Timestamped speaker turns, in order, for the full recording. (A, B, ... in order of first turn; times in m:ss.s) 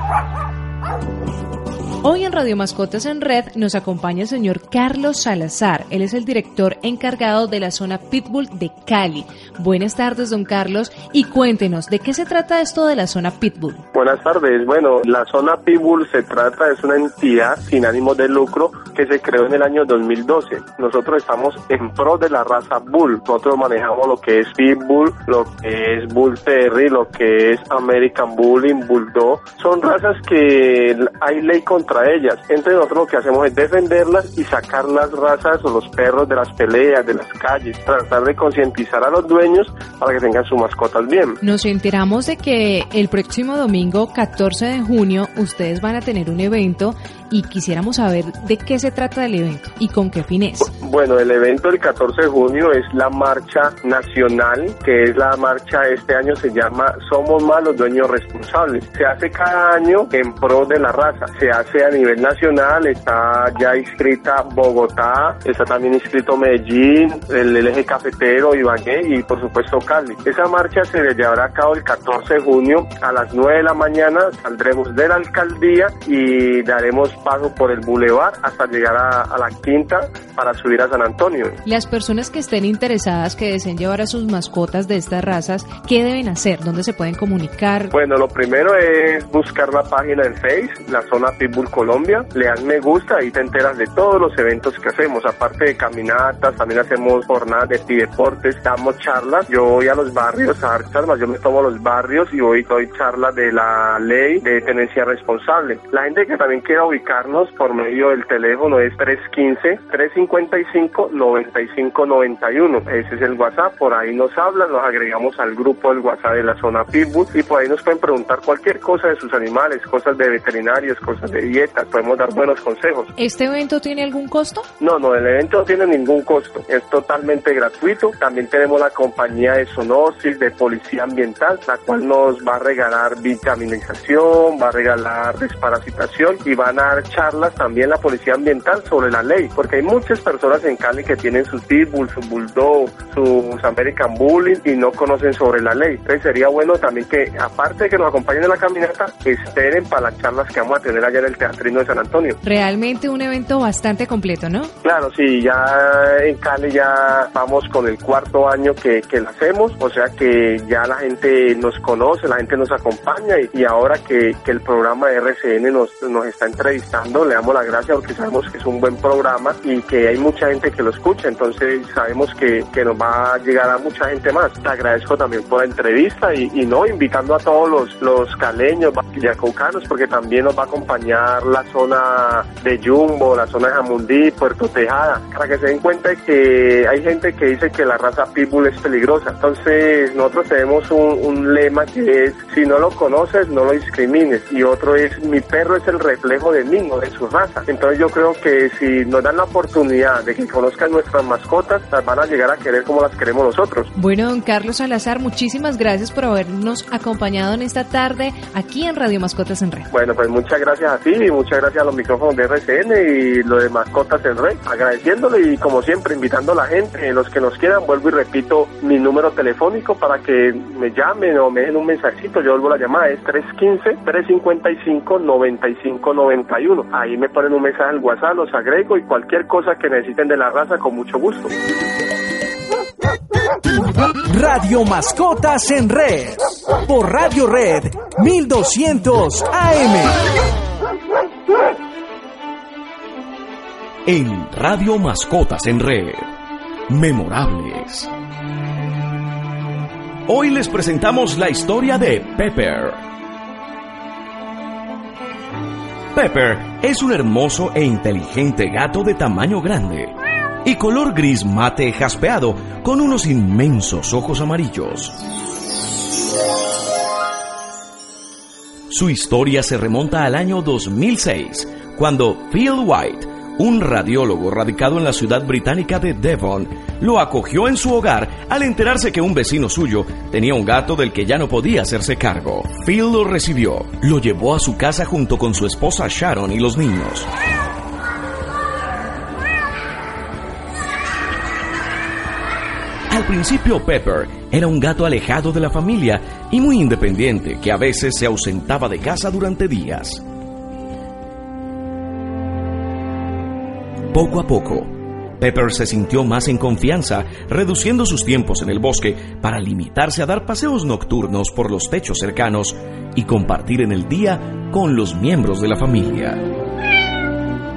0:02.0-0:13.9 A
0:13.9-0:41.4 B
0:41.4-0:50.6 A
0:50.6-1:21.6 B
1:21.7-1:27.9 A
1:27.9-2:03.1 B
2:03.2-2:04.7 A
2:04.8-2:32.4 B
2:32.4-2:34.7 A
2:34.8-3:23.9 B
3:24.0-3:29.9 A
3:29.9-3:51.5 B
3:54.3-4:00.2 C
4:04.1-4:06.3 D
4:06.9-4:08.1 D
4:10.3-4:13.0 D
4:16.1-4:20.1 D
4:20.6-4:25.2 D
4:28.9-4:47.3 D
4:53.1-5:00.2 D
5:04.1-5:16.4 D